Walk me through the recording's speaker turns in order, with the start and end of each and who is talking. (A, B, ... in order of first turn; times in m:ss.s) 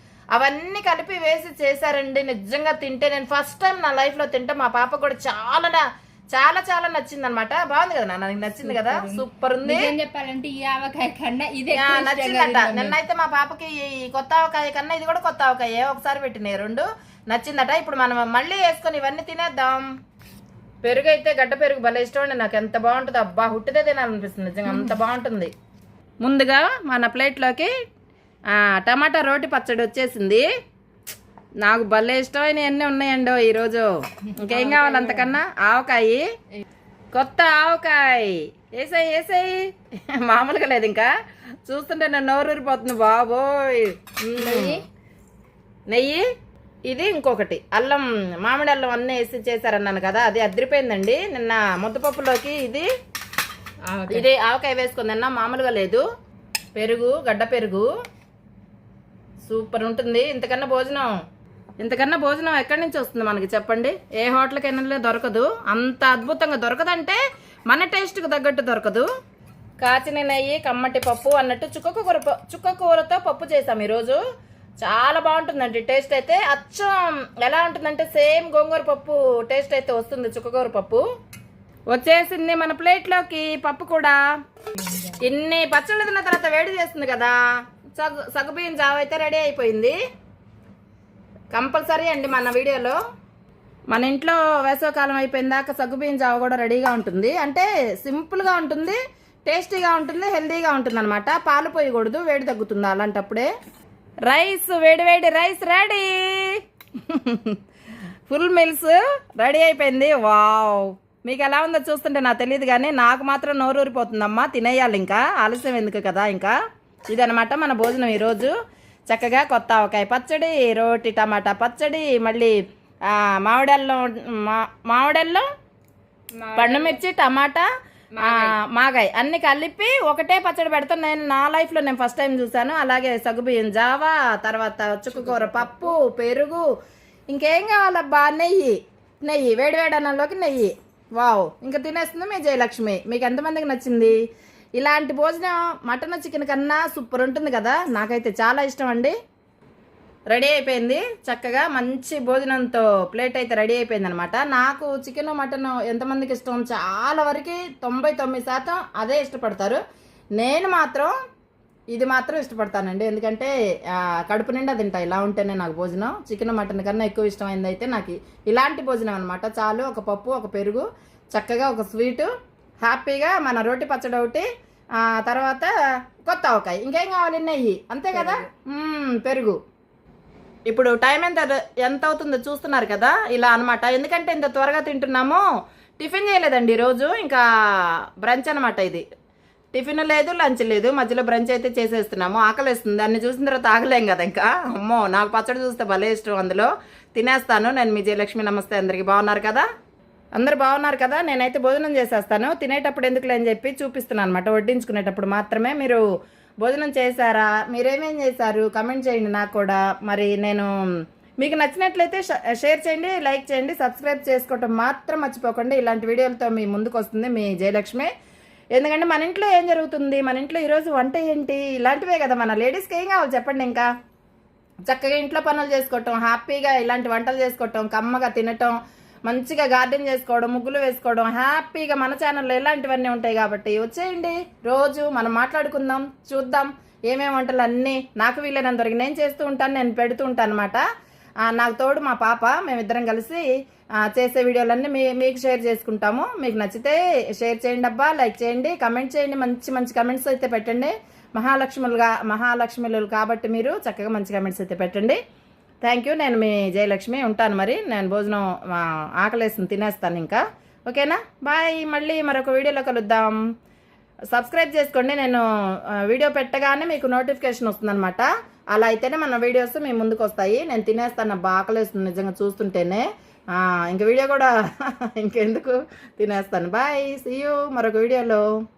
0:00.3-0:09.9 A
0:08.6-0:13.0 B
0:11.7-0:19.9 A
0:20.8-0:25.5 A
0:24.6-0:25.0 B
0:26.2-0:27.7 A
0:28.5-0:30.4 A
0:31.6-0:36.2 A
0:34.3-0:35.4 B
0:37.1-0:41.1 A
0:41.7-0:44.8 A
0:44.4-0:44.8 B
0:45.9-0:46.2 A
0:46.9-0:52.9 A
0:53.9-0:54.3 B
0:54.1-0:56.0 A
0:56.8-0:57.9 A
0:59.4-1:01.1 A
1:01.8-1:09.1 A
1:09.8-1:14.2 A
1:14.8-1:21.0 A
1:21.9-1:24.2 A
1:24.7-1:25.2 B
1:25.2-1:27.3 A
1:27.9-1:30.0 A
1:31.5-1:33.0 A
1:33.9-1:43.5 A
1:44.3-1:47.6 A
1:48.3-1:56.5 A
1:57.1-1:58.5 A
1:59.1-2:02.5 A
2:03.1-2:05.5 A
2:06.4-2:07.0 B
2:06.6-2:07.7 A
2:08.1-2:08.6 B
2:08.2-2:16.6 A
2:15.1-2:15.9 B
2:17.3-2:24.2 A
2:24.8-2:29.2 A
2:30.3-2:39.8 A
2:40.4-2:41.1 A
2:41.9-2:52.3 A
2:52.8-2:54.5 A
2:55.0-2:55.7 A
2:56.2-2:59.6 A
2:58.1-2:58.5 B
3:00.7-3:05.4 A
3:06.0-3:09.0 A
3:09.7-3:19.6 A
3:20.4-3:26.0 A
3:26.6-3:30.7 A
3:31.4-3:38.1 A
3:38.8-3:43.9 A
3:44.9-4:00.8 A
4:01.4-4:03.4 A
4:04.0-4:15.2 A
4:15.8-4:23.4 A
4:24.3-4:38.4 A